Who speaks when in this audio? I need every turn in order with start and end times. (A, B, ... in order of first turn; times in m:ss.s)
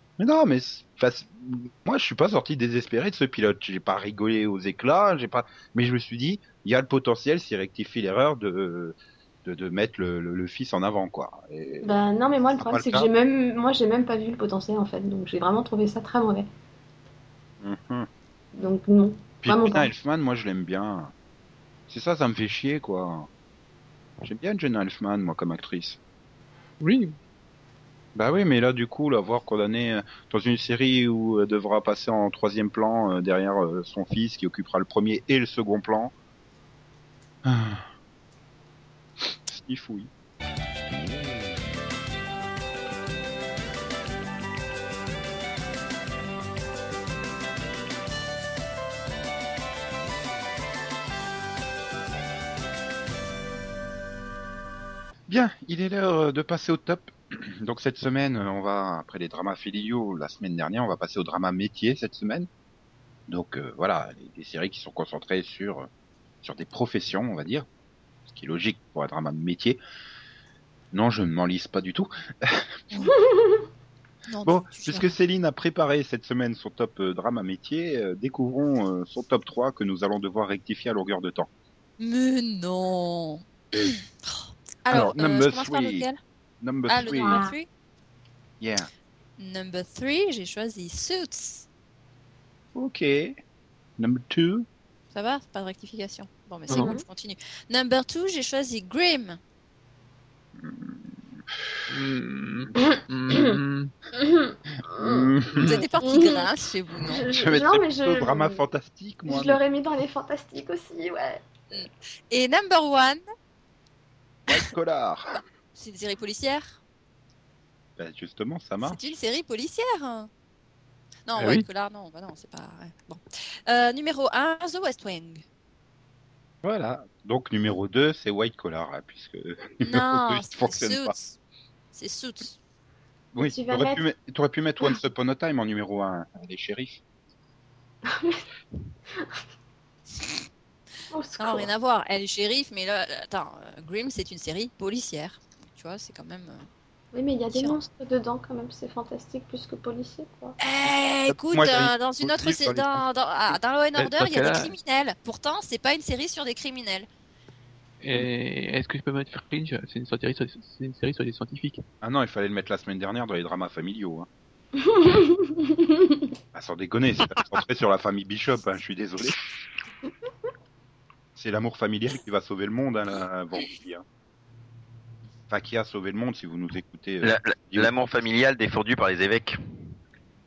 0:00.2-0:12.0 A
0:11.8-0:16.5 B
0:12.6-0:13.1 A
0:17.6-0:18.1 A
0:18.5-0:19.9 B
0:19.4-0:21.1 A
0:21.9-0:23.3 A
0:24.2-0:26.0 A
0:26.8-0:27.2 C
0:28.1-0:36.1 A
0:37.4-0:37.8 A
0:39.2-0:40.1 A
0:55.3-1:02.5 A
1:03.3-1:05.9 A
1:06.4-1:07.7 A
1:08.3-1:09.8 A
1:10.9-1:12.8 A
1:13.0-1:13.6 B
1:14.3-1:15.1 D
1:14.4-1:21.5 A
1:22.0-1:26.2 D
1:24.9-1:26.0 A
1:26.6-1:27.4 A
1:26.9-1:27.7 D
1:27.1-1:27.6 B
1:28.6-1:28.9 A
1:29.4-1:31.6 D
1:32.7-1:33.4 A
1:34.0-1:34.6 A
1:35.1-1:39.4 D
1:36.7-1:37.0 B
1:40.6-1:41.1 A
1:41.9-1:43.9 C
1:44.1-1:45.3 B
1:45.0-1:45.8 A
1:45.6-1:47.2 D
1:46.0-1:46.4 B
1:47.0-1:48.6 B
1:47.3-1:49.6 A
1:49.3-1:51.4 B
1:51.7-1:53.2 D
1:54.5-1:55.4 A
1:55.7-1:56.8 D
1:58.0-1:59.0 A
1:58.8-2:00.3 D
2:01.3-2:05.4 D
2:01.4-2:01.6 C
2:06.6-2:11.1 A
2:09.8-2:11.4 D
2:11.9-2:12.5 D
2:13.3-2:17.0 A
2:13.4-2:14.0 B
2:18.1-2:18.4 B
2:21.1-2:21.7 B
2:21.4-2:26.7 D
2:27.1-2:30.6 B
2:27.5-2:27.8 D
2:30.6-2:37.1 D
2:31.3-2:33.5 A
2:34.0-2:34.7 C
2:38.0-2:41.8 C
2:42.0-2:44.3 A
2:44.8-2:46.2 B
2:46.5-2:49.4 A
2:51.3-2:54.0 A
2:55.5-2:57.9 A
2:57.2-2:59.6 E